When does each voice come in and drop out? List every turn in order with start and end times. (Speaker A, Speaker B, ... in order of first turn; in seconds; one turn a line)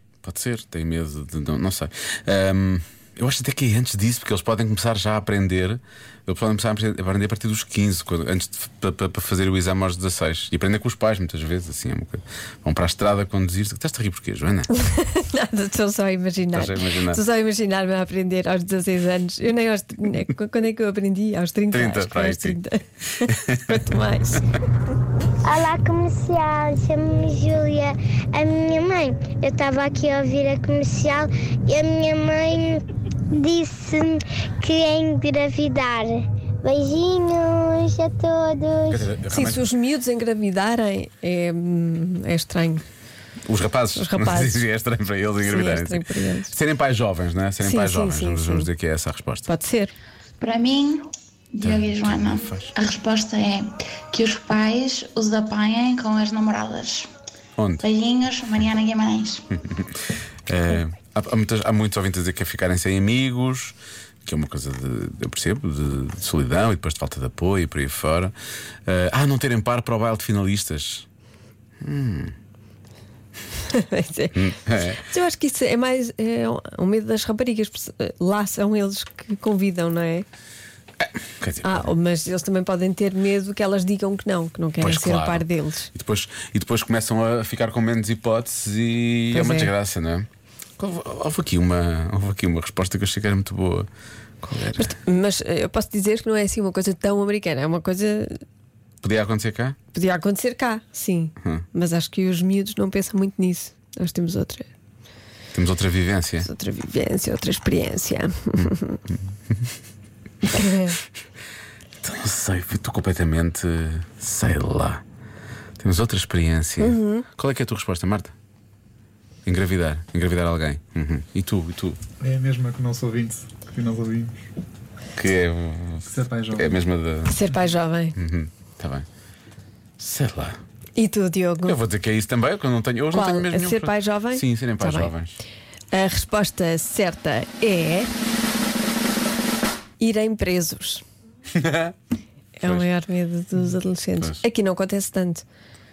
Speaker A: 0.2-14.7
Speaker B: 14.7-24.4
Speaker A: 16.5-17.2
Speaker A: 21.7-22.6
Speaker A: 23.2-23.8
Speaker C: 25.4-39.0
Speaker A: 38.9-39.7
Speaker B: 39.3-42.8
Speaker A: 43.5-49.5
Speaker B: 44.0-44.6
Speaker B: 45.4-46.5
Speaker B: 47.6-48.7
Speaker B: 49.5-49.9
Speaker D: 50.4-57.1
Speaker A: 51.6-52.7
Speaker A: 57.6-57.8
Speaker D: 57.8-59.4
Speaker A: 59.5-68.3
Speaker A: 68.9-71.1
Speaker A: 71.8-72.3
Speaker B: 73.7-80.3
Speaker A: 74.3-75.0
Speaker A: 81.0-81.9
Speaker B: 81.6-85.9
Speaker A: 84.8-90.3
Speaker B: 89.3-89.7
Speaker A: 90.8-93.9
Speaker A: 94.4-94.9
Speaker B: 94.8-98.4
Speaker A: 99.0-99.8
Speaker B: 99.9-104.7
Speaker A: 105.5-106.5
Speaker B: 106.4-109.0
Speaker B: 110.5-111.0
Speaker A: 112.0-115.0
Speaker A: 115.8-118.3
Speaker B: 116.8-117.2
Speaker A: 119.5-122.0
Speaker E: 122.2-124.5
Speaker A: 125.2-127.4
Speaker E: 126.1-126.8
Speaker B: 127.3-128.2
Speaker A: 128.2-129.1
Speaker A: 130.0-130.6
Speaker B: 131.0-131.8
Speaker A: 131.7-135.4
Speaker B: 133.1-135.1
Speaker B: 135.9-138.1
Speaker B: 140.0-141.0
Speaker A: 141.5-141.9
Speaker B: 142.6-145.4